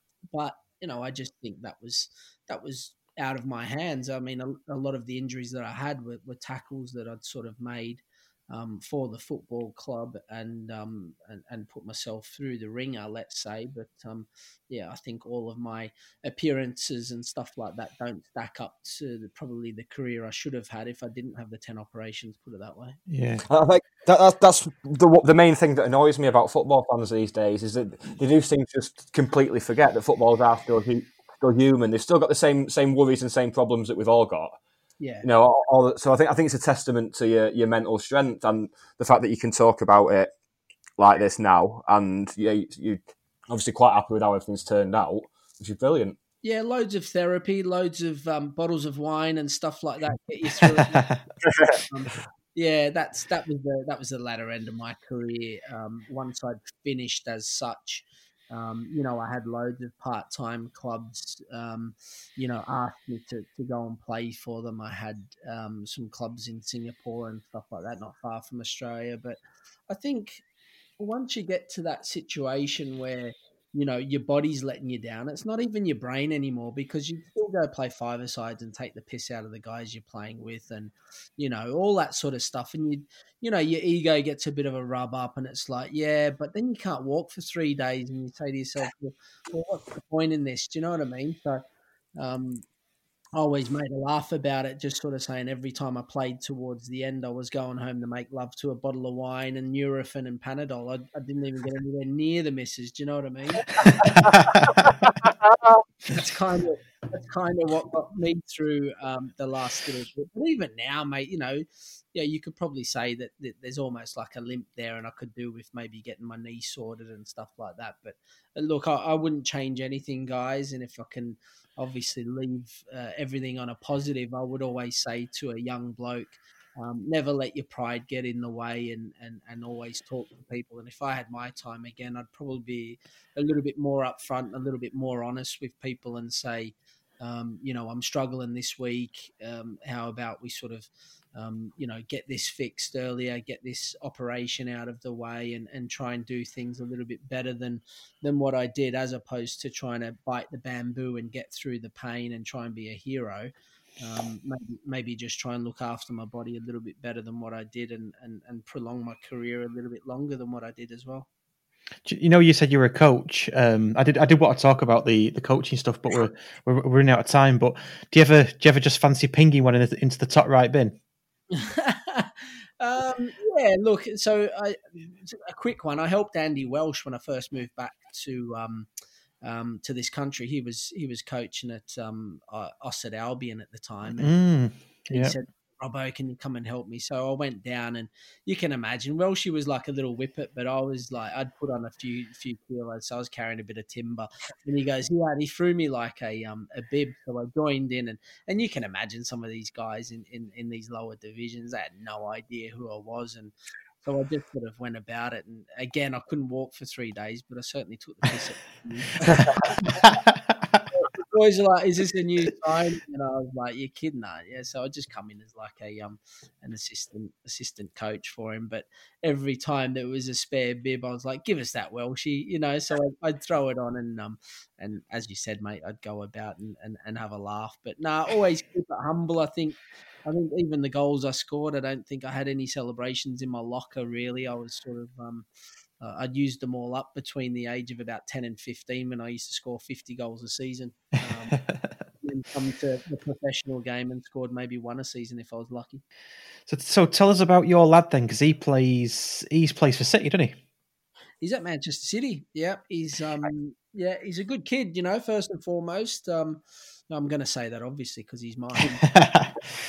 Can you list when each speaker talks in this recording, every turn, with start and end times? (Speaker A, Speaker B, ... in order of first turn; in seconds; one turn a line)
Speaker A: 0.3-23.0
Speaker B: 23.1-23.4
Speaker C: 23.5-34.6
Speaker A: 35.0-35.3
Speaker C: 35.2-40.3
Speaker C: 41.0-46.2
Speaker A: 46.4-51.0
Speaker C: 51.5-51.7
Speaker A: 51.9-70.4
Speaker A: 71.0-91.6
Speaker A: 92.2-92.6
Speaker A: 93.3-104.9
Speaker A: 106.1-161.3
Speaker B: 162.1-171.0
Speaker A: 171.5-178.9
Speaker A: 179.4-184.3
Speaker B: 184.2-185.3
Speaker A: 185.1-210.2
Speaker C: 209.2-209.7
Speaker B: 210.0-210.3
Speaker A: 210.9-235.4
Speaker A: 236.0-241.6
Speaker B: 241.5-241.9
Speaker A: 242.2-246.0
Speaker B: 246.7-250.6
Speaker A: 251.4-259.1
Speaker B: 259.1-259.5